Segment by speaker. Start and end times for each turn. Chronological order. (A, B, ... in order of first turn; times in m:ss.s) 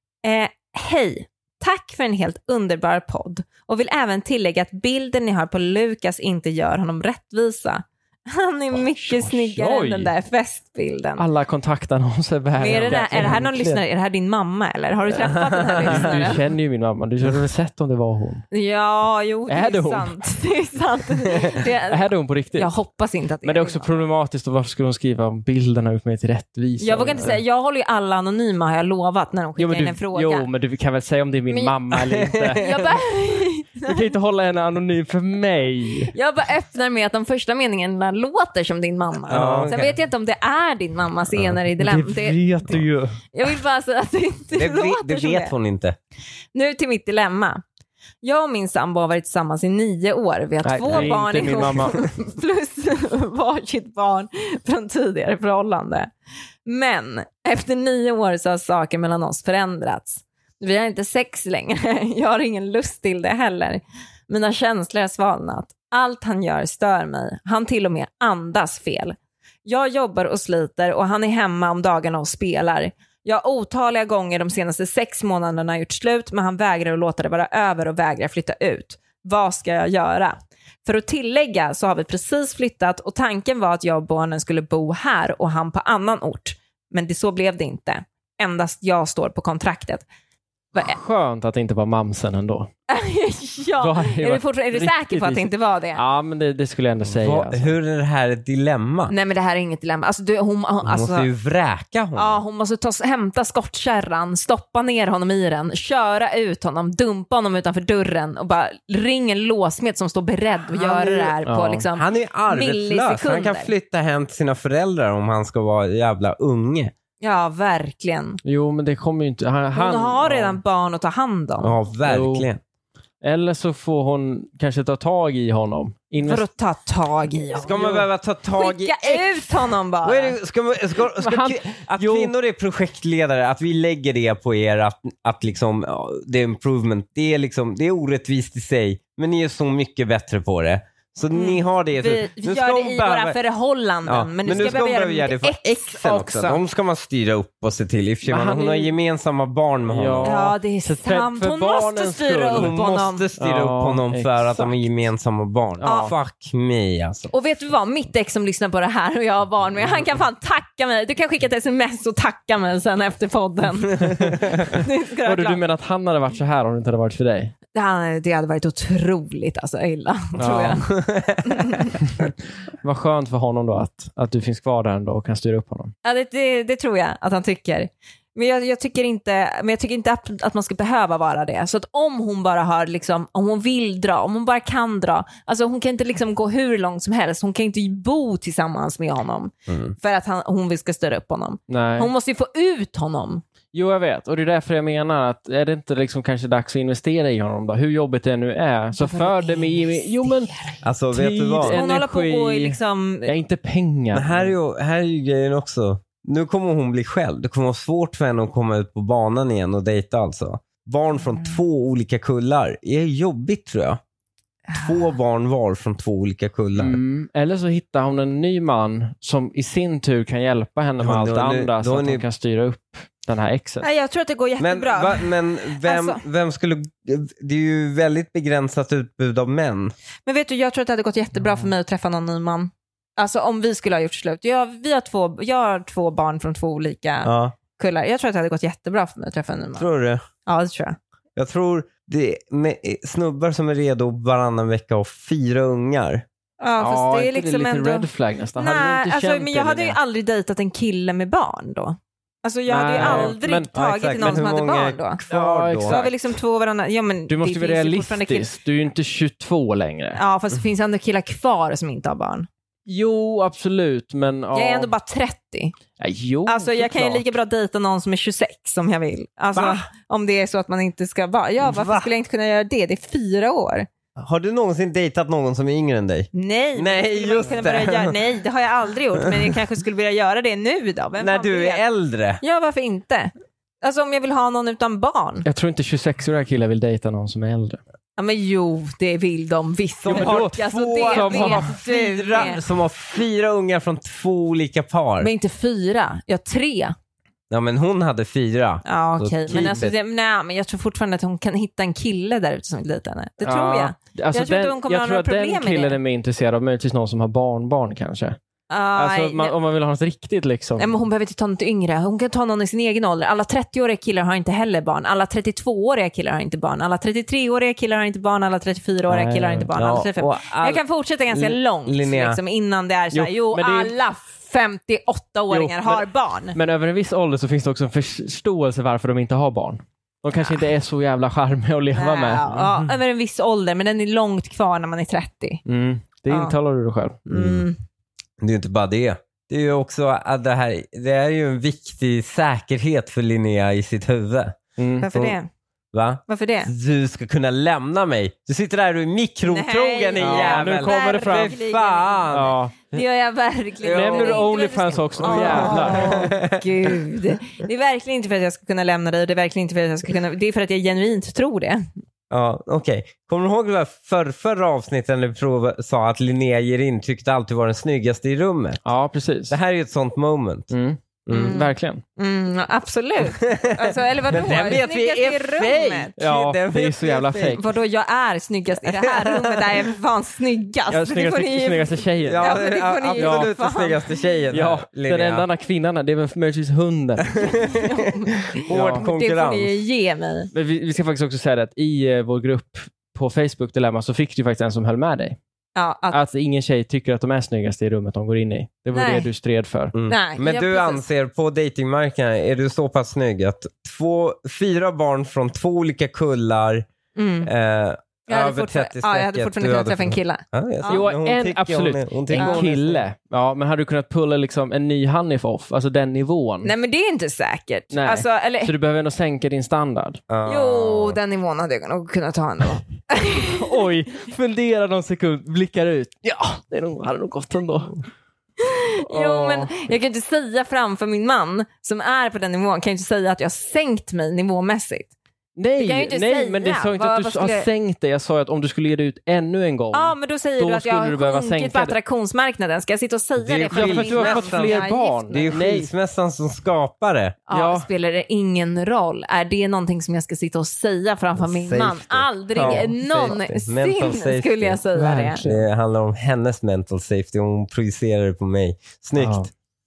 0:00.2-0:11.2 A
0:08.9-0:10.1 B
0:11.2-0:13.8 B
0:12.6-0:16.4 A
0:15.5-0:16.2 C
0:15.8-0:18.4 B
0:18.5-0:24.0 A
0:19.5-0:20.1 B
0:21.6-0:22.7 B
0:23.4-0:27.4 B
0:26.8-0:30.5 A
0:29.6-0:32.6 B
0:32.1-0:32.9 C
0:32.5-0:34.1 A
0:33.8-0:36.1 B
0:36.1-0:42.4 A
0:39.3-0:40.0 C
0:39.3-0:39.7 B
0:41.8-0:43.2 B
0:43.3-0:45.5 A
0:44.6-0:46.0 C
0:46.5-0:47.6 A
0:48.2-0:56.1 A
0:50.6-0:52.1 B
0:50.9-0:51.9 C
0:56.6-1:30.0 A
1:30.8-1:32.7 B
1:32.9-1:36.0 A
1:33.8-1:37.8 B
1:37.0-1:39.1 C
1:39.1-1:41.3 A
1:40.8-1:42.4 C
1:42.2-1:53.7 A
1:50.7-1:51.3 C
1:51.4-1:51.8 B
1:52.0-1:56.9 C
1:57.2-1:58.4 A
1:58.4-2:00.6 B
1:59.7-2:01.8 A
2:01.6-2:02.6 C
2:02.0-2:02.5 B
2:03.2-2:06.4 B
2:06.2-2:07.8 A
2:07.6-2:08.0 B
2:07.6-2:09.5 C
2:08.6-2:10.4 A
2:10.0-2:23.4 C
2:11.2-2:12.3 B
2:21.3-2:26.6 A
2:24.0-2:30.4 C
2:28.2-2:28.9 B
2:29.9-2:32.7 B
2:30.2-2:33.2 A
2:32.5-2:37.3 C
2:33.4-2:34.7 B
2:35.8-2:36.1 B
2:35.8-2:36.1 A
2:37.3-2:45.6 A
2:44.0-2:44.5 B
2:45.2-2:47.5 B
2:47.7-2:52.0 A
2:50.4-2:50.8 B
2:50.8-2:51.8 C
2:52.8-2:55.9 B
2:56.0-3:13.4 A
3:09.7-3:09.9 C
3:11.7-3:12.1 B
3:13.7-3:20.5 B
3:19.0-3:20.8 A
3:20.8-3:21.8 C
3:21.1-3:24.5 B
3:21.7-3:23.3 A
3:24.1-3:34.0 C
3:34.7-3:37.0 C
3:36.8-3:43.9 B
3:41.0-3:42.2 C
3:43.8-3:46.2 A
3:44.6-3:49.9 C
3:50.2-3:59.9 A
3:57.2-3:57.6 C
3:59.8-4:00.2 C
4:00.4-4:01.0 A
4:01.4-4:06.2 C
4:06.6-4:15.2 A
4:06.8-4:10.0 B
4:12.7-4:13.7 B
4:13.0-4:16.0 C
4:15.3-4:16.1 B
4:15.8-4:18.5 A
4:17.3-4:20.2 B
4:20.2-4:22.5 A
4:22.9-4:24.9 B
4:24.5-4:25.7 A
4:26.0-4:27.2 B
4:26.4-4:33.9 A
4:29.5-4:29.8 C
4:31.6-4:32.1 C
4:34.2-4:38.2 C
4:36.3-4:41.8 A
4:41.2-4:42.4 C
4:42.4-4:45.4 A
4:45.4-4:47.8 B
4:48.2-4:52.6 A
4:50.0-4:55.3 C
4:50.0-4:51.7 B
4:55.2-4:57.0 A
4:57.5-4:59.9 C
4:58.8-5:06.0 A
5:03.4-5:08.4 B
5:08.7-5:09.5 A
5:08.9-5:10.9 B
5:10.8-5:26.6 A
5:19.1-5:19.7 B
5:19.8-5:22.4 C
5:23.1-5:23.9 B
5:25.5-5:32.5 B
5:32.0-5:35.6 A
5:32.5-5:32.8 C
5:35.6-5:37.2 B
5:36.3-5:36.6 A
5:37.3-5:37.8 A
5:37.3-5:37.6 C
5:38.4-5:45.4 C
5:44.8-5:45.1 B
5:45.0-5:45.5 A
5:45.9-5:52.6 C
5:46.3-5:46.7 A
5:49.5-5:52.3 A
5:50.2-5:51.6 B
5:52.3-5:52.9 B
5:52.9-6:01.8 A
5:53.8-5:54.5 C
5:53.9-5:56.3 B
5:55.2-5:57.0 C
6:02.3-6:08.8 C
6:08.8-6:09.6 B
6:09.5-6:10.7 C
6:10.7-6:12.0 B
6:11.2-6:11.6 C
6:11.3-6:24.1 A
6:13.4-6:16.2 C
6:14.3-6:14.8 B
6:16.2-6:17.6 B
6:18.8-6:19.8 C
6:20.9-6:22.6 B
6:22.2-6:25.5 C
6:23.2-6:23.5 B
6:24.5-6:27.6 B
6:27.3-6:27.8 C
6:27.7-6:30.5 A
6:28.6-6:29.8 C
6:28.7-6:29.0 B
6:30.5-6:35.4 B
6:35.7-6:36.2 A
6:36.1-6:39.9 B
6:38.9-6:39.3 A
6:39.9-6:46.9 C
6:40.1-6:41.0 A
6:47.2-6:47.5 A
6:47.4-6:53.0 C
6:48.3-6:51.1 A
6:50.9-6:56.7 B
6:52.3-6:52.6 A
6:56.6-6:58.7 A
6:57.9-7:00.2 B
7:00.3-7:01.2 C
7:00.4-7:03.8 A
7:03.4-7:08.0 B
7:08.6-7:15.1 A
7:09.0-7:09.7 B
7:15.6-7:22.0 B
7:15.8-7:17.7 A
7:19.9-7:25.6 A
7:23.4-7:27.4 C
7:23.7-7:25.9 B
7:27.5-7:35.4 A
7:27.5-7:27.9 B
7:31.4-7:34.8 C
7:32.6-7:32.9 B
7:34.9-7:35.6 B
7:35.4-7:39.4 C
7:39.2-7:39.5 B